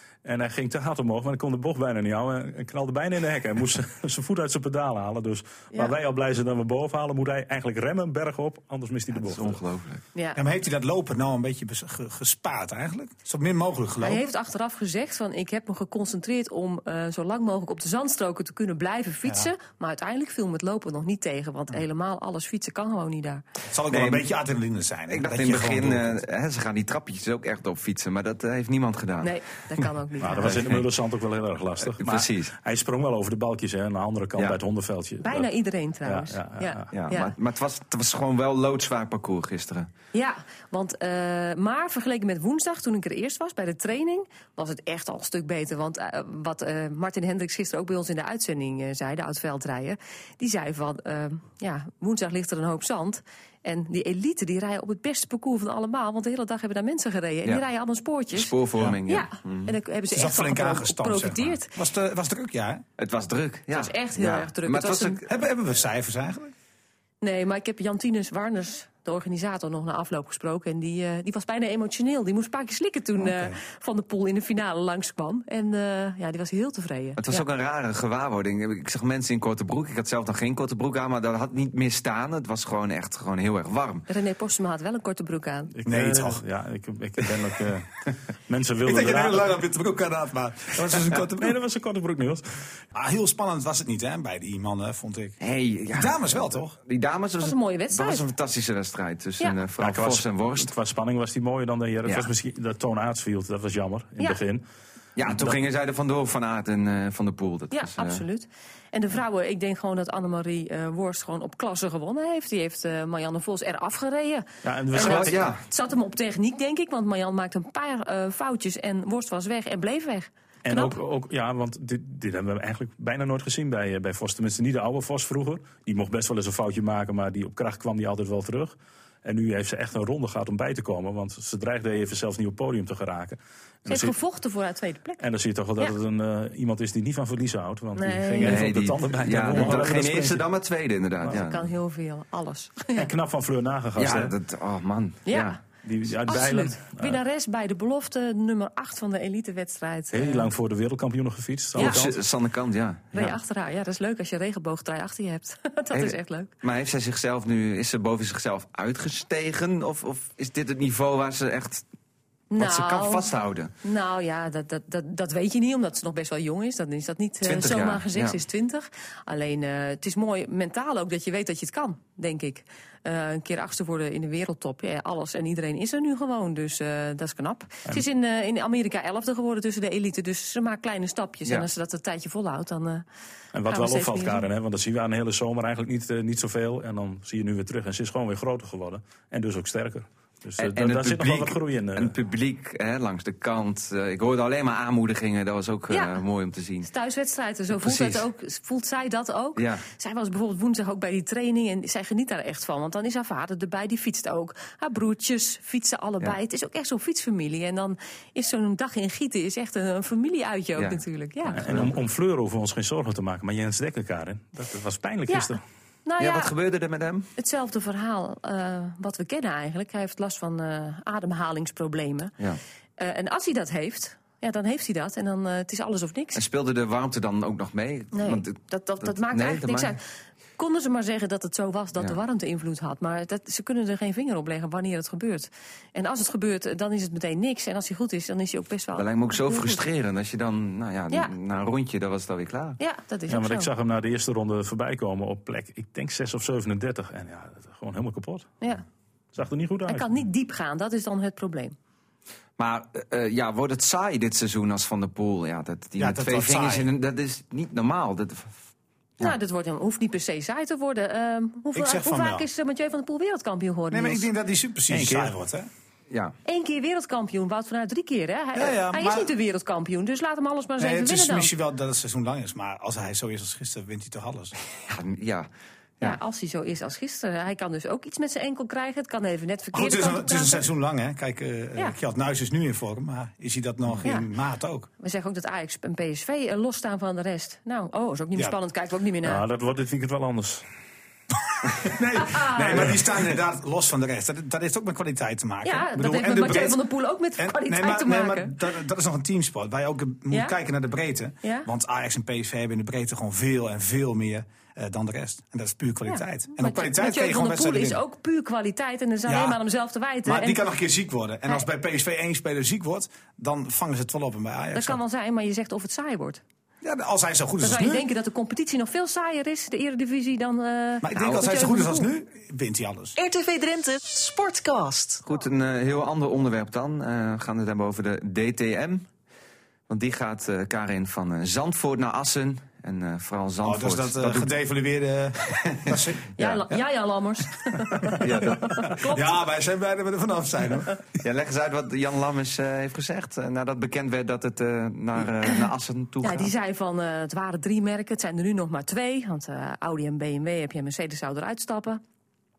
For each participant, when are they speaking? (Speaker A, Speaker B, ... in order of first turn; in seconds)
Speaker A: 0.2-9.6, 30.2-35.5, 36.1-36.9, 85.8-88.0, 88.5-89.4, 91.2-92.5, 99.8-104.7, 105.2-105.6, 114.6-115.5, 120.7-134.2, 135.2-140.5, 141.2-141.5, 143.0-144.3, 145.8-147.2, 150.1-152.1, 183.5-192.1, 211.6-215.6, 243.3-248.5, 249.3-250.1, 264.9-265.3, 289.2-290.6
Speaker B: 9.1-10.0, 23.9-24.3, 25.1-29.3, 30.4-30.8, 31.8-32.5, 36.9-39.9, 58.3-59.7, 63.0-65.2, 77.2-84.1, 95.4-100.7, 102.0-102.3, 105.2-108.2, 114.9-115.6, 138.4-141.6, 144.0-145.6, 151.8-153.4, 155.9-161.8, 162.6-163.7, 167.4-168.4, 190.6-196.9, 197.7-198.2, 199.6-199.8, 210.8-212.0, 216.2-217.3, 226.3-230.0, 238.9-242.8, 252.6-258.6, 274.9-275.5, 325.2-329.1, 329.9-334.5, 335.9-336.7, 338.2-338.8, 341.2-346.5
Speaker C: 10.1-10.4, 14.0-23.4, 29.2-30.6, 35.2-37.4, 40.1-58.5, 59.1-61.7, 63.7-65.2, 67.2-77.5, 84.1-85.7, 97.4-98.3, 107.7-121.0, 133.9-135.2, 137.9-138.7, 141.3-143.1, 145.3-145.6, 146.2-150.5, 151.8-152.0, 153.1-156.5, 162.5-163.3, 163.8-183.0, 183.7-184.5, 195.9-196.2, 196.8-211.6, 215.3-216.5, 217.4-222.3, 223.0-226.4, 228.1-230.0, 230.6-239.8, 242.8-243.7, 249.9-251.8, 259.2-264.3, 266.4-271.5, 276.0-280.7, 284.0-284.3, 285.0-289.4, 292.2-293.0, 295.6-298.6, 300.3-300.6, 301.4-301.7, 306.1-310.6, 314.7-316.4, 317.6-322.1, 336.4-339.3, 346.2-352.0
Speaker D: 10.3-14.2, 19.2-19.5, 23.7-26.2, 60.1-62.8, 65.3-66.5, 73.2-73.6, 85.8-86.4, 88.8-91.6, 92.9-95.4, 95.9-96.8, 256.0-256.9, 261.7-262.4, 263.9-265.7, 268.5-269.3, 270.8-274.5, 279.7-284.9, 291.7-296.8, 297.4-308.0, 309.3-309.6, 310.2-315.0, 316.8-318.1, 321.0-323.2, 333.6-336.4, 339.1-341.0
Speaker E: 323.2-325.2